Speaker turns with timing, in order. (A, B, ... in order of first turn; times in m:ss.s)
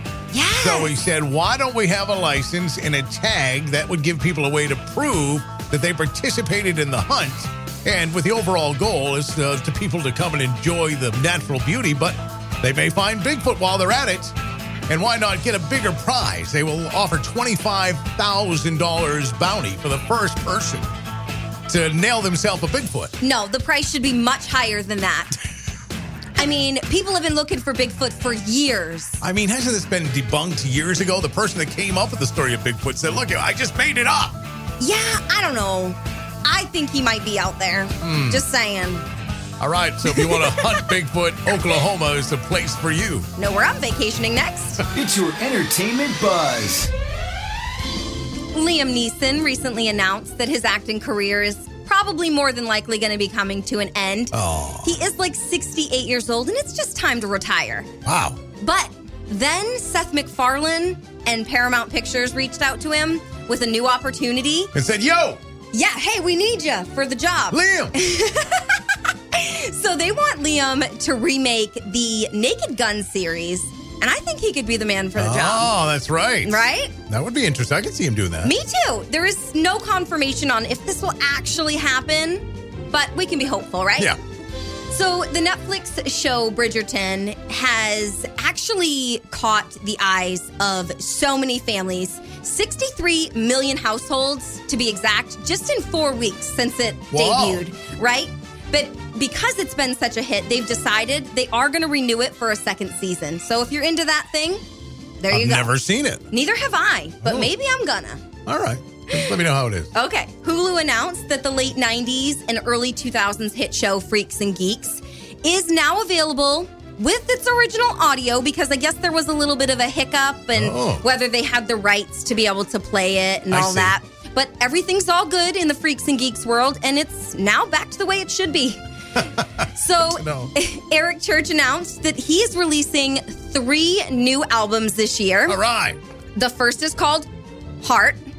0:00.3-0:00.9 A
0:00.6-0:14.3 B
0:14.9-0:20.9 B
0:21.7-0:23.1 B
0:23.2-0:25.4 A
0:26.4-0:29.2 A
0:29.2-0:34.4 B
0:34.8-0:39.0 A
0:38.0-0:38.4 B
0:39.6-0:43.3 B
0:40.1-0:40.9 A
0:43.4-0:44.8 A
0:44.9-0:46.9 C
0:48.5-0:57.9 A
0:54.3-0:55.0 B
0:58.0-0:58.4 B
0:58.6-1:04.7 A
1:04.7-1:05.4 B
1:05.7-1:15.7 A
1:07.5-1:07.9 B
1:15.1-1:18.5 B
1:16.4-1:16.9 A
1:18.4-1:24.2 A
1:24.9-1:44.6 A
1:37.1-1:37.6 B
1:45.2-1:45.8 A
1:45.3-1:46.3 B
1:46.3-1:48.2 A
1:47.2-1:47.5 B
1:48.4-1:49.9 B
1:49.1-1:49.4 A
1:49.9-2:08.8 A
2:00.5-2:01.0 B
2:03.5-2:03.9 B
2:09.4-2:10.5 B
2:09.6-2:15.6 A
2:15.5-2:16.0 B
2:16.4-2:17.3 A
2:17.8-2:18.2 A